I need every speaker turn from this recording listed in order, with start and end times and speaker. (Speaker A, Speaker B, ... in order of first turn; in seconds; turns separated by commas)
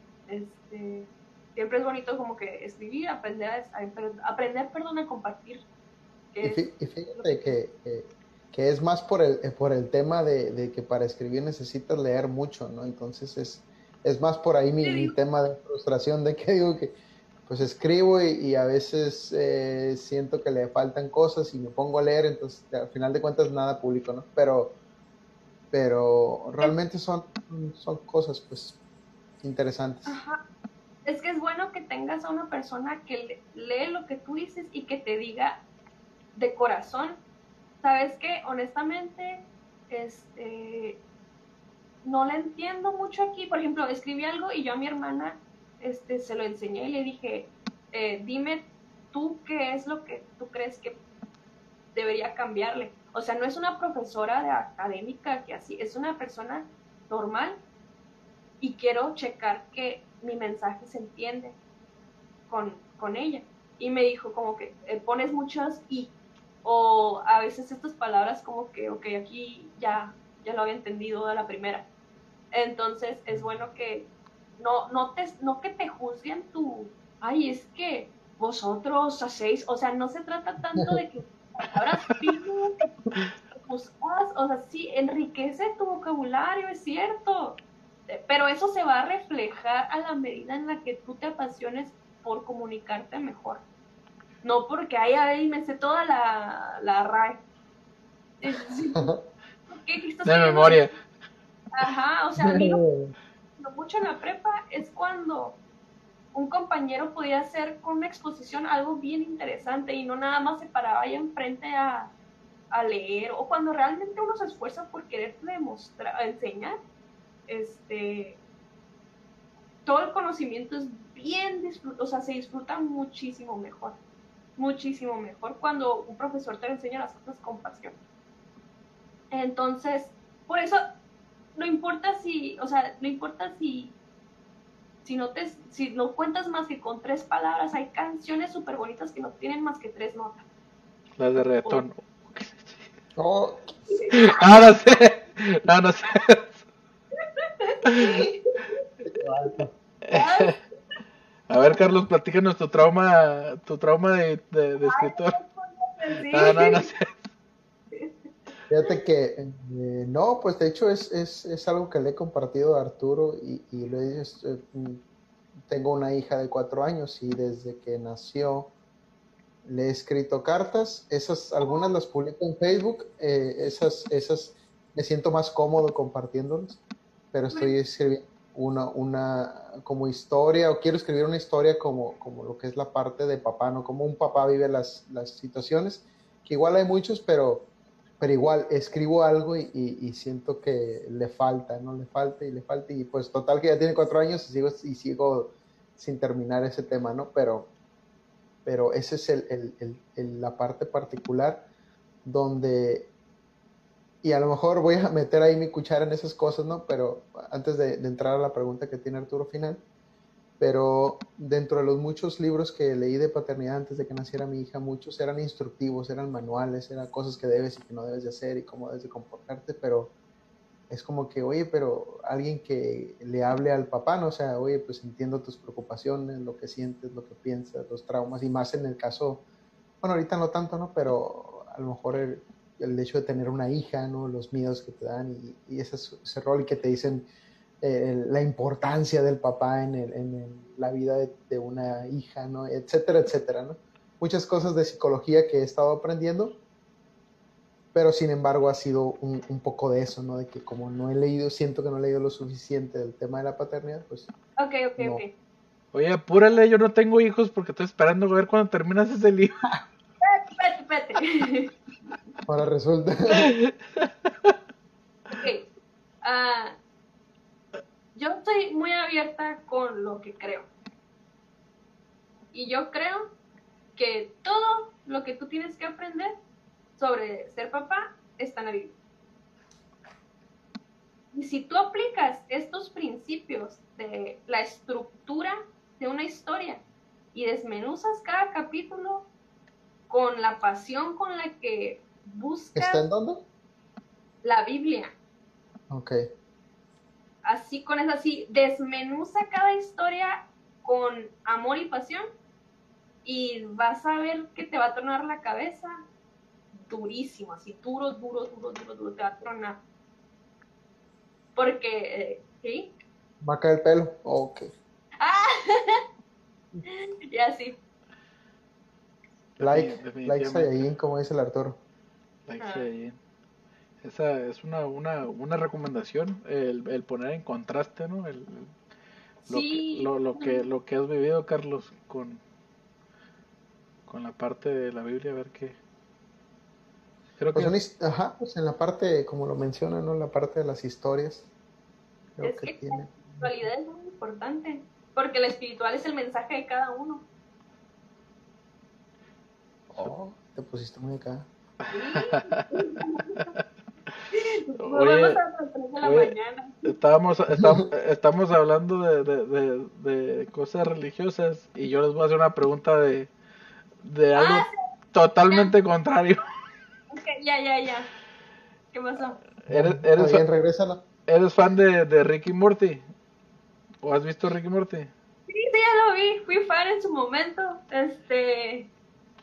Speaker A: 0.3-5.7, Speaker A: 6.3-7.4, Speaker B: 6.4-17.0, Speaker A: 14.8-15.1, Speaker B: 17.5-24.8, Speaker B: 25.7-28.8, Speaker B: 29.4-30.2, Speaker A: 30.1-30.4, Speaker A: 31.1-35.6, Speaker A: 36.4-37.2, Speaker A: 37.8-41.0, Speaker A: 42.0-51.0, Speaker A: 52.0-57.6, Speaker A: 58.6-61.6, Speaker A: 62.5-66.1, Speaker A: 66.6-71.9, Speaker A: 72.5-74.1, Speaker A: 74.6-82.8, Speaker A: 83.6-93.6, Speaker A: 94.4-97.4, Speaker A: 98.4-99.1, Speaker B: 99.0-99.2, Speaker A: 99.7-100.8, Speaker C: 100.2-100.9, Speaker A: 101.7-102.8, Speaker B: 102.4-103.1, Speaker A: 103.6-105.6, Speaker A: 106.3-112.1, Speaker A: 112.7-116.8, Speaker A: 117.5-118.4, Speaker A: 119.9-124.0, Speaker A: 124.6-128.0, Speaker A: 129.3-130.8, Speaker A: 131.6-133.9, Speaker A: 135.1-140.4, Speaker C: 141.2-142.8, Speaker B: 143.2-143.7, Speaker A: 143.9-144.6, Speaker C: 144.1-146.6, Speaker A: 147.2-148.8, Speaker B: 149.1-149.7, Speaker C: 150.0-150.6, Speaker A: 150.1-150.5, Speaker C: 151.5-155.4, Speaker A: 154.8-156.9, Speaker C: 156.3-157.2, Speaker A: 157.9-158.3, Speaker B: 158.7-165.0, Speaker B: 165.7-168.7, Speaker B: 169.7-176.8, Speaker A: 171.6-171.9, Speaker B: 177.3-187.7, Speaker B: 188.2-197.7, Speaker B: 198.7-201.7, Speaker B: 202.2-203.1, Speaker B: 204.2-209.8, Speaker B: 210.6-220.1, Speaker B: 220.9-229.4, Speaker B: 230.0-237.3, Speaker B: 237.8-246.6, Speaker B: 247.9-254.3, Speaker A: 254.6-255.3, Speaker B: 255.0-255.2, Speaker C: 255.9-259.6, Speaker A: 260.2-261.7, Speaker B: 262.5-263.5, Speaker C: 263.4-264.1, Speaker A: 265.3-265.7, Speaker A: 266.2-266.8, Speaker A: 268.1-270.7, Speaker A: 272.5-273.2, Speaker A: 274.0-276.3, Speaker A: 277.0-278.9, Speaker A: 281.3-286.8, Speaker A: 287.3-289.3, Speaker A: 290.1-293.1, Speaker B: 292.8-293.4, Speaker A: 294.4-295.1, Speaker B: 295.9-296.2, Speaker A: 297.4-302.2, Speaker A: 303.2-305.9, Speaker A: 306.7-309.8, Speaker A: 311.6-312.9, Speaker B: 313.4-314.7, Speaker A: 315.2-316.0, Speaker A: 316.9-317.8, Speaker C: 319.6-320.7, Speaker B: 319.6-321.8, Speaker C: 322.5-323.1, Speaker A: 322.6-322.9, Speaker C: 324.0-328.7, Speaker C: 329.5-332.4, Speaker A: 329.5-330.6, Speaker C: 334.1-335.8, Speaker C: 337.4-337.8, Speaker B: 337.6-341.5, Speaker B: 342.4-343.6, Speaker A: 342.4-347.2, Speaker B: 349.9-351.5, Speaker C: 351.8-352.6, Speaker A: 351.9-353.6, Speaker A: 354.3-356.9, Speaker C: 354.8-355.4, Speaker C: 356.0-363.3, Speaker C: 364.0-366.4, Speaker A: 364.4-364.9, Speaker A: 367.1-368.1, Speaker A: 368.9-369.4, Speaker C: 369.7-370.4, Speaker B: 369.7-371.0, Speaker C: 371.3-373.0, Speaker C: 374.0-375.1, Speaker A: 375.5-378.9